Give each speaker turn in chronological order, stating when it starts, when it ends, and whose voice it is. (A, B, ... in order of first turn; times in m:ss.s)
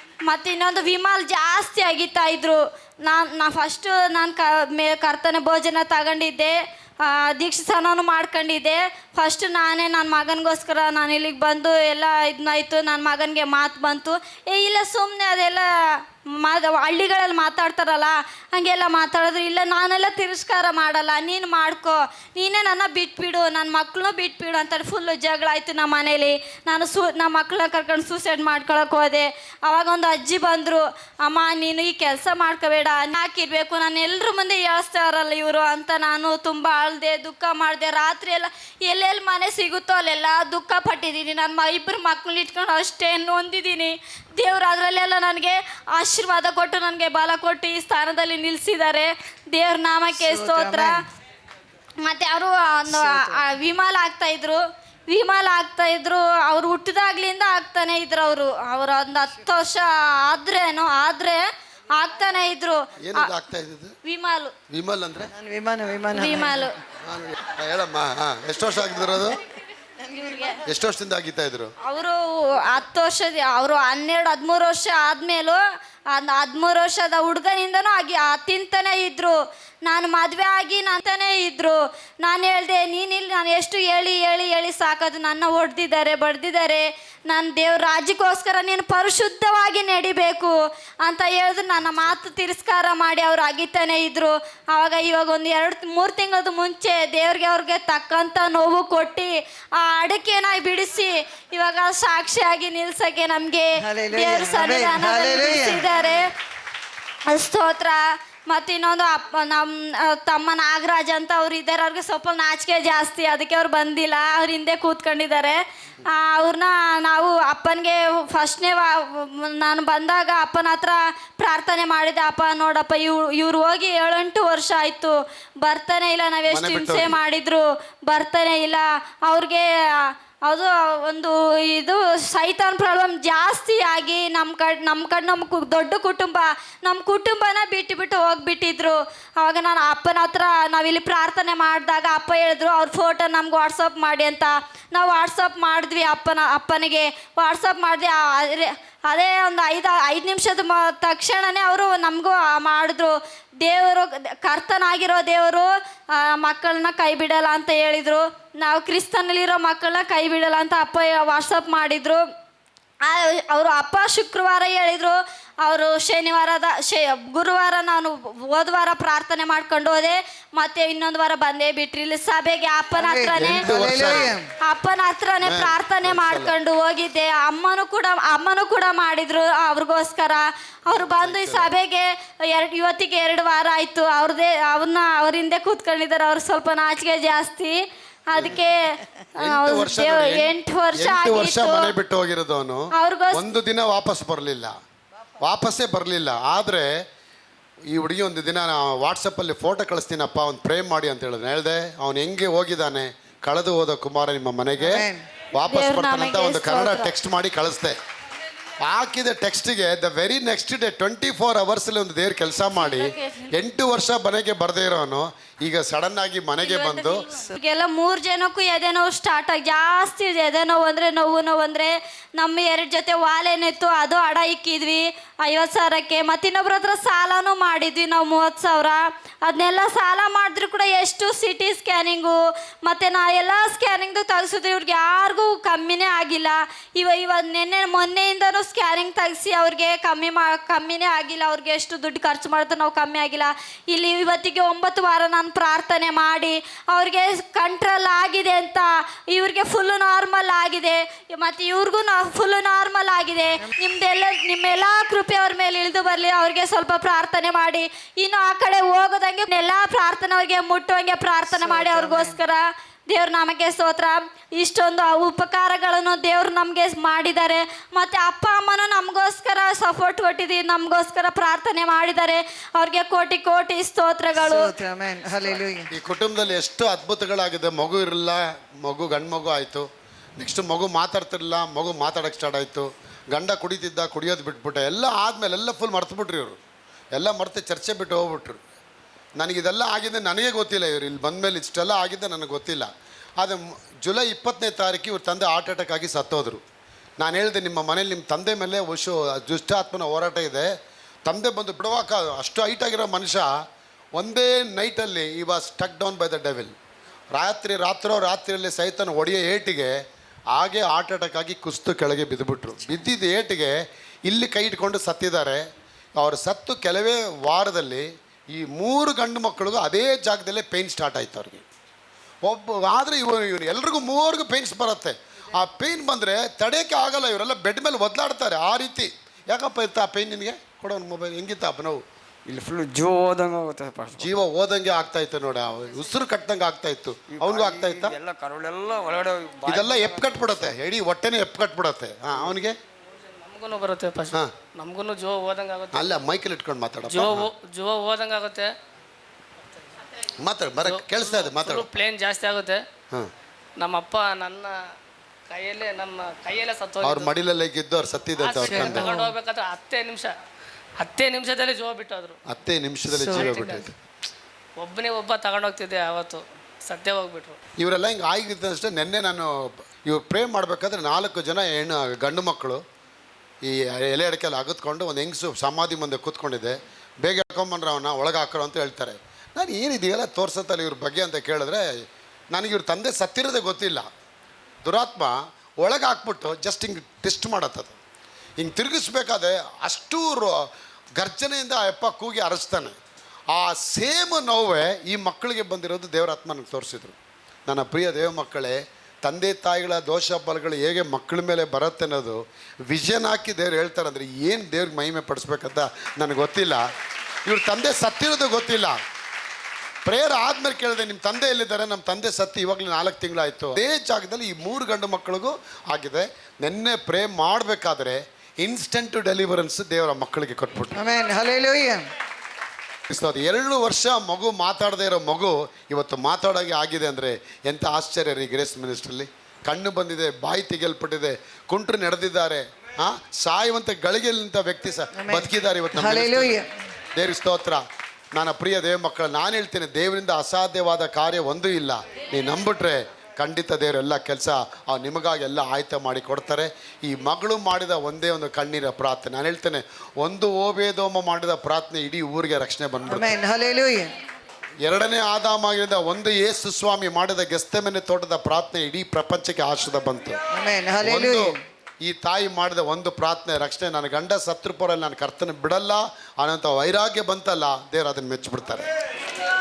0:00.2-0:51.0 A
0:50.1-0:51.0 B
0:52.0-1:03.3 A
0:53.0-0:53.3 B
1:03.0-1:04.0 C
1:04.0-1:04.5 A
1:04.7-1:05.3 C
1:05.3-1:06.6 B
1:06.1-1:06.7 A
1:07.0-1:09.4 C
1:10.0-1:10.6 A
1:10.6-1:11.7 C
1:11.8-1:15.6 A
1:16.1-1:46.3 A
1:31.8-1:32.2 C
1:43.8-1:45.8 B
1:47.2-2:42.2 A
2:06.5-2:07.2 C
2:43.0-3:11.9 A
2:53.0-2:54.4 B
2:53.4-2:54.3 C
2:55.4-2:56.5 C
3:01.0-3:01.8 C
3:08.3-3:08.6 C
3:09.4-3:14.7 C
3:12.9-3:13.5 A
3:15.4-3:16.9 C
3:17.9-3:28.0 C
3:24.8-3:25.2 B
3:25.6-3:27.1 A
3:28.8-3:37.2 C
3:32.7-3:33.5 A
3:36.6-4:34.7 A
4:21.5-4:22.4 B
4:34.4-4:35.9 B
4:35.9-4:46.6 C
4:47.2-4:48.6 C
4:49.4-4:52.9 C
4:53.4-4:56.6 C
4:57.2-5:00.7 C
5:01.2-5:03.5 C
5:04.1-5:06.7 C
5:07.3-5:09.9 C
5:10.5-5:15.6 C
5:16.2-5:21.6 C
5:22.4-5:32.0 C
5:32.5-5:34.3 D
5:34.2-5:38.1 C
5:37.4-5:40.5 D
5:39.7-5:42.8 C
5:43.4-5:46.2 E
5:45.9-5:47.5 C
5:47.1-5:48.7 E
5:50.4-5:51.9 C
5:50.8-5:52.8 E
5:53.8-5:54.8 E
5:55.5-5:57.3 E
5:57.0-5:59.1 C
5:58.4-6:00.4 E
5:58.6-5:59.3 B
6:01.0-6:02.4 E
6:02.4-6:03.9 C
6:03.1-6:03.7 B
6:03.3-6:03.8 E
6:04.8-6:07.6 E
6:07.8-6:12.8 C
6:13.6-6:24.1 C
6:24.8-6:28.0 C
6:28.6-6:33.0 C
6:33.5-6:37.2 C
6:37.7-6:46.8 C
6:47.4-6:49.0 C
6:50.0-7:01.0 C
7:00.9-7:02.0 B
7:03.1-7:16.6 C
7:15.2-7:16.7 B
7:17.2-7:17.8 C
7:18.3-7:33.4 C
7:33.1-7:34.1 B
7:34.8-7:40.4 C
7:40.5-7:41.6 B
7:41.0-7:48.9 C